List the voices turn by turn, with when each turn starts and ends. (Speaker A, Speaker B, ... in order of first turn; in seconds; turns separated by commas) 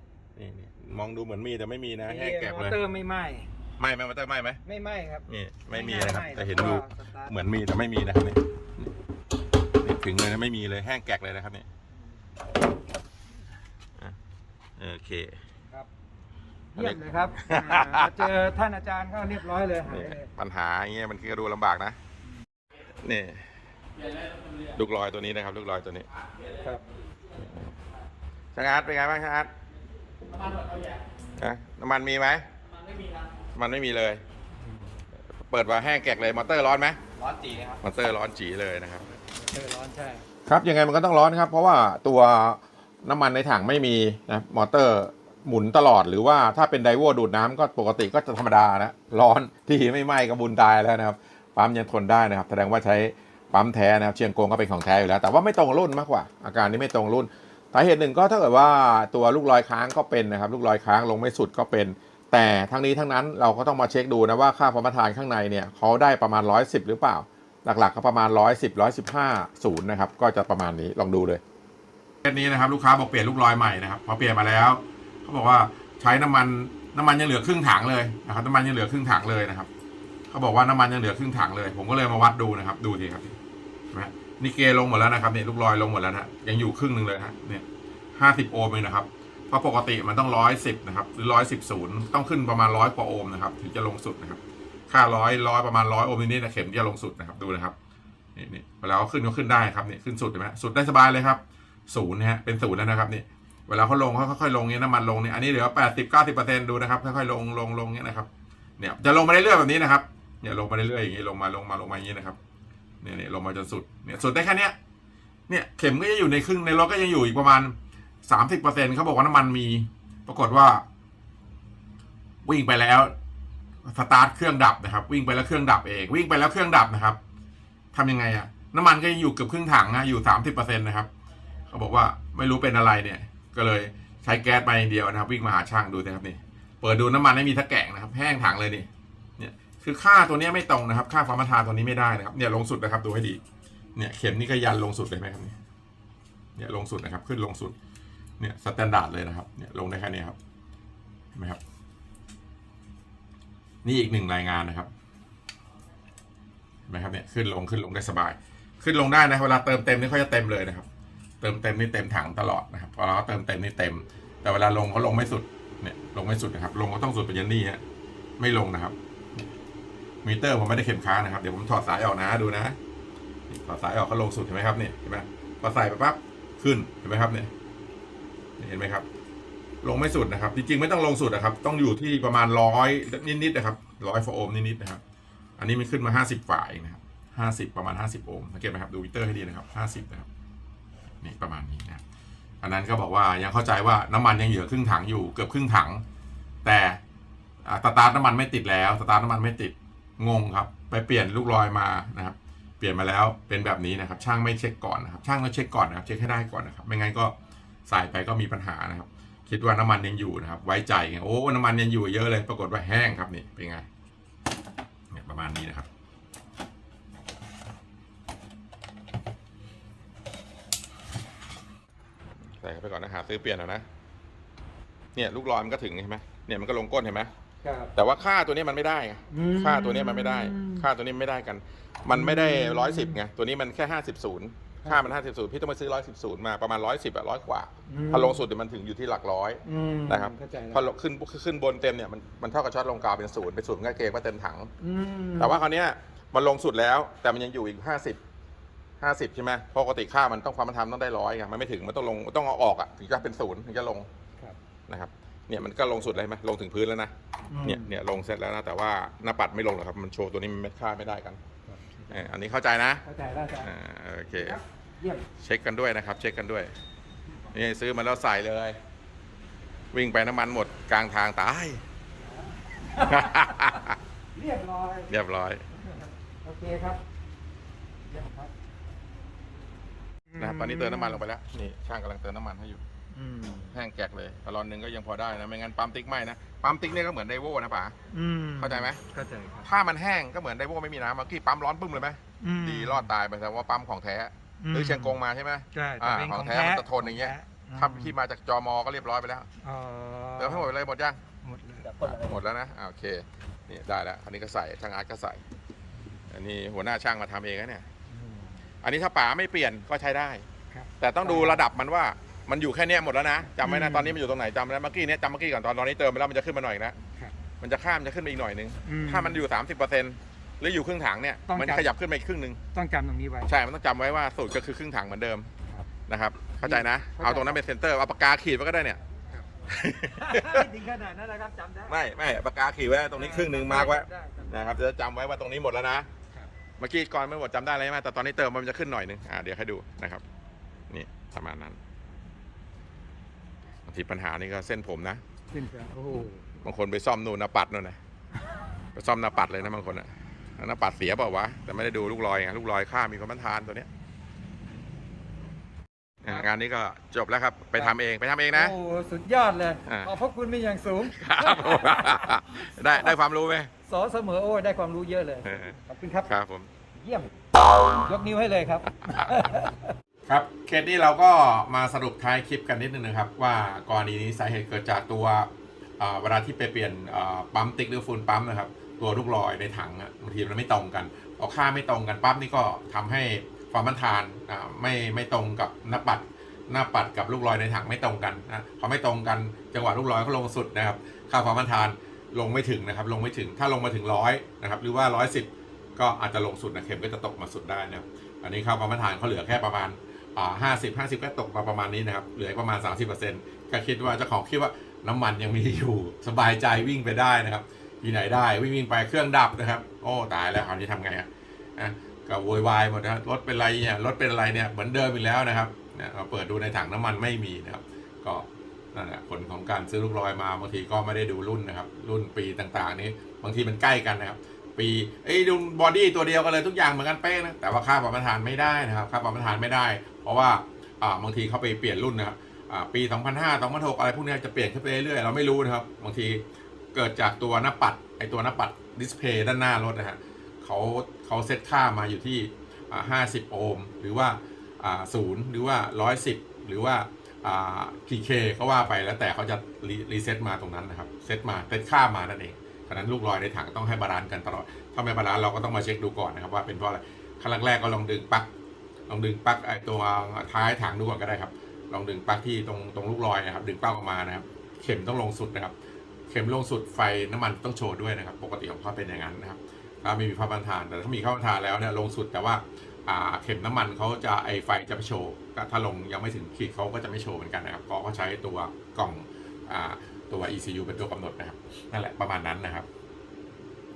Speaker A: 0.3-2.8, Speaker B: 2.0-3.5, Speaker A: 3.8-4.6, Speaker B: 4.6-7.3, Speaker A: 5.3-8.9, Speaker A: 9.8-11.7, Speaker A: 14.8-15.4, Speaker B: 16.7-20.3, Speaker A: 16.8-18.3, Speaker A: 19.8-22.0, Speaker A: 23.0-23.5, Speaker A: 24.7-26.1, Speaker B: 26.6-26.8, Speaker A: 27.4-27.7, Speaker A: 28.6-29.5, Speaker B: 30.5-30.9, Speaker A: 31.4-32.5, Speaker A: 33.5-34.2, Speaker A: 35.5-37.0, Speaker B: 37.2-37.8, Speaker A: 37.8-39.0, Speaker B: 39.2-40.2, Speaker A: 40.5-71.4, Speaker A: 72.2-79.7, Speaker A: 80.3-83.4, Speaker A: 83.9-87.6, Speaker A: 88.2-97.7, Speaker A: 98.3-112.4, Speaker A: 113.0-114.7, Speaker A: 115.5-120.8, Speaker A: 122.4-123.1, Speaker A: 123.9-127.2, Speaker A: 127.9-131.1, Speaker A: 131.7-143.4, Speaker A: 143.9-145.6, Speaker A: 146.6-147.8, Speaker A: 148.4-150.4, Speaker A: 151.3-151.6, Speaker A: 153.8-154.9, Speaker A: 156.9-160.8, Speaker A: 161.4-167.8, Speaker A: 168.4-168.9, Speaker A: 170.2-172.8, Speaker A: 173.5-177.5, Speaker A: 178.6-179.1, Speaker A: 179.8-185.0, Speaker A: 185.6-190.3, Speaker A: 191.2-192.0, Speaker A: 192.6-196.0, Speaker A: 196.6-197.0, Speaker A: 197.6-207.3, Speaker A: 207.8-213.8, Speaker A: 215.1-215.9, Speaker A: 222.6-223.8, Speaker A: 225.1-227.3, Speaker B: 227.6-227.9, Speaker A: 227.9-244.7, Speaker B: 229.3-230.8, Speaker B: 232.1-233.2, Speaker B: 234.8-235.2, Speaker B: 237.9-238.4, Speaker B: 239.6-240.9, Speaker B: 244.8-245.6, Speaker A: 245.4-248.2, Speaker A: 249.0-254.1, Speaker A: 254.9-257.1, Speaker B: 257.5-258.0, Speaker A: 257.6-261.4, Speaker B: 261.6-262.3, Speaker A: 262.1-263.0, Speaker B: 263.0-263.7, Speaker A: 263.6-264.6, Speaker B: 264.3-265.2, Speaker A: 265.4-266.7, Speaker A: 267.5-268.8, Speaker A: 269.9-271.8, Speaker B: 272.7-273.8, Speaker A: 273.1-274.0, Speaker B: 274.3-275.1, Speaker A: 275.1-275.6, Speaker B: 275.9-277.0, Speaker B: 278.1-278.5, Speaker B: 280.3-281.2, Speaker A: 280.4-282.8, Speaker B: 283.1-283.8, Speaker A: 283.7-287.9, Speaker B: 288.1-289.7, Speaker A: 288.6-289.0, Speaker A: 289.6-299.5, Speaker B: 292.4-293.1, Speaker B: 294.6-295.2, Speaker B: 295.7-298.1, Speaker B: 299.6-300.7, Speaker A: 300.4-301.2, Speaker B: 301.4-302.3, Speaker A: 302.0-305.4, Speaker A: 306.3-307.9, Speaker B: 308.1-308.6, Speaker A: 308.8-310.4, Speaker B: 310.7-311.6, Speaker A: 311.0-317.0, Speaker B: 313.6-314.1, Speaker A: 317.6-322.6, Speaker B: 318.8-319.4, Speaker B: 321.5-321.9, Speaker B: 322.7-323.5, Speaker A: 323.4-325.5, Speaker A: 326.1-329.0, Speaker B: 326.6-327.6, Speaker A: 329.7-330.7, Speaker B: 330.1-332.0, Speaker A: 331.9-336.1, Speaker B: 333.1-334.8, Speaker A: 336.8-340.2, Speaker A: 340.9-341.8, Speaker A: 343.9-345.2, Speaker B: 345.5-346.4, Speaker A: 346.6-348.0, Speaker A: 348.9-353.9, Speaker A: 356.2-358.8, Speaker B: 358.5-363.1, Speaker A: 359.9-360.1, Speaker A: 361.0-363.7, Speaker B: 363.8-366.3, Speaker A: 365.4-366.7, Speaker B: 366.9-367.3, Speaker B: 367.9-369.9, Speaker A: 369.0-369.6, Speaker A: 370.2-458.5, Speaker A: 459.1-465.7, Speaker A: 466.3-482.9